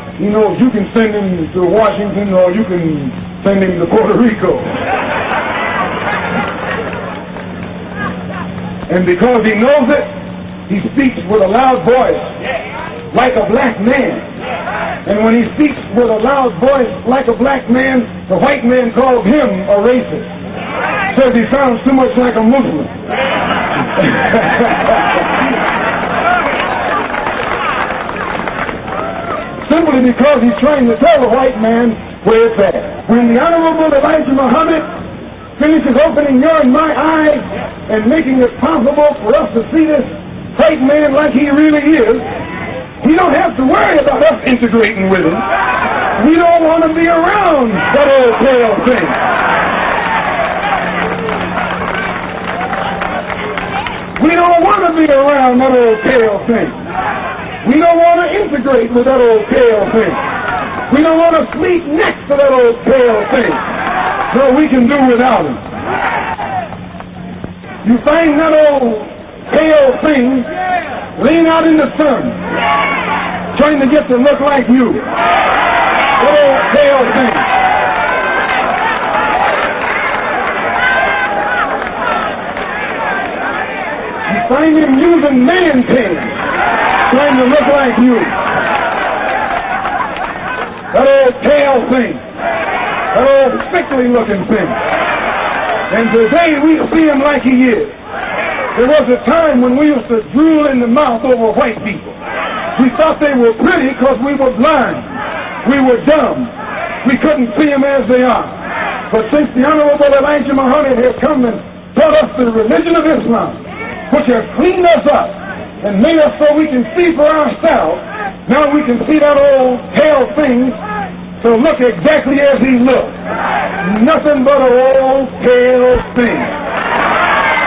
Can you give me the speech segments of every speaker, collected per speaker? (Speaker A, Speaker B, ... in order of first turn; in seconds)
Speaker A: 0.2-4.7, 8.9-10.1, 10.7-12.3, 13.1-14.3, 15.0-20.3, 21.1-22.9, 24.0-25.0, 29.6-34.9, 35.6-42.3, 43.0-45.4, 46.2-49.2, 54.2-56.8, 57.6-60.2, 60.9-63.6, 64.3-65.6, 67.8-70.5, 71.2-72.4, 73.5-75.0, 76.2-77.5, 84.3-86.4, 87.1-88.3, 90.9-92.2, 93.1-94.8, 95.9-97.9, 98.7-102.2, 102.8-105.1, 105.6-106.5, 107.0-108.5, 109.1-120.8, 121.4-123.1, 123.8-126.5